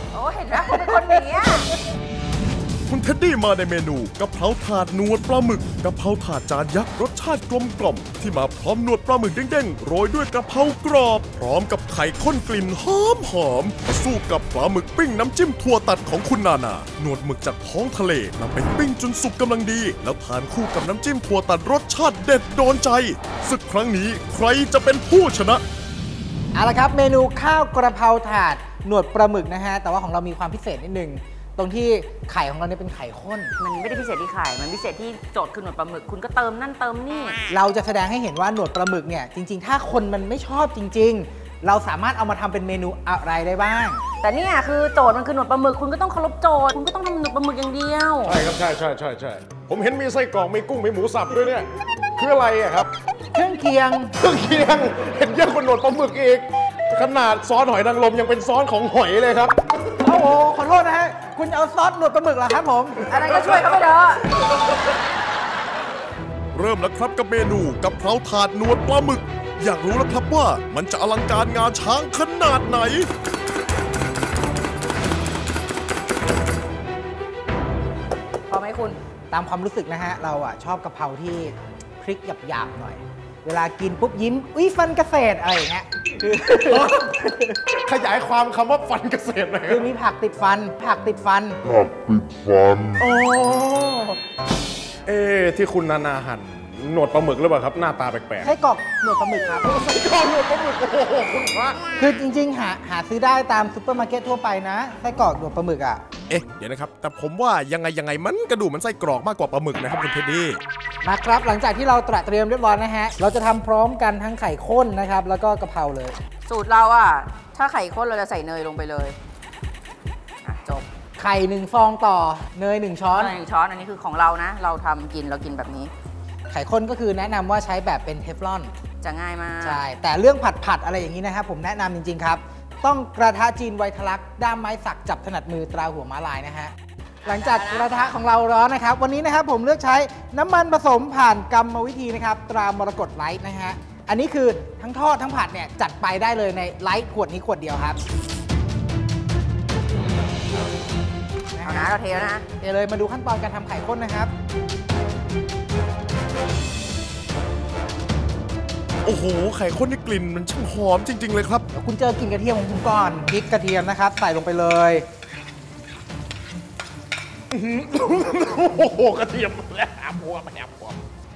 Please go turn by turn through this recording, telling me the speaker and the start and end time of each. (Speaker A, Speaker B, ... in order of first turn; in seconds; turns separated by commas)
Speaker A: 0.1-1.7, Speaker B: 0.5-1.2, Speaker C: 2.9-25.6, Speaker B: 26.5-33.5, Speaker A: 33.6-37.4, Speaker B: 37.5-44.0, Speaker A: 44.2-48.4, Speaker C: 48.2-52.9, Speaker B: 53.3-54.1, Speaker C: 54.2-59.6, Speaker B: 60.0-63.1, Speaker A: 63.1-64.5, Speaker C: 66.5-73.1, Speaker A: 78.5-79.0, Speaker B: 79.3-87.5, Speaker C: 86.7-87.1, Speaker C: 87.7-89.9, Speaker B: 89.7-91.6, Speaker C: 93.0-94.2, Speaker C: 95.1-98.5, Speaker B: 98.4-100.2, Speaker C: 99.9-101.8, Speaker B: 102.0-106.0, Speaker C: 106.3-110.6, Speaker B: 111.0-116.2, Speaker A: 116.5-119.2, Speaker A: 120.4-120.9, Speaker B: 121.2-123.4, Speaker A: 123.1-125.9, Speaker B: 126.5-128.7, Speaker A: 129.0-129.8, Speaker B: 129.6-136.7, Speaker B: 137.2-148.0, Speaker A: 137.3-137.9, Speaker B: 151.5-154.3, Speaker A: 151.6-152.4, Speaker C: 159.1-161.6, Speaker B: 161.7-165.1, Speaker C: 167.5-171.0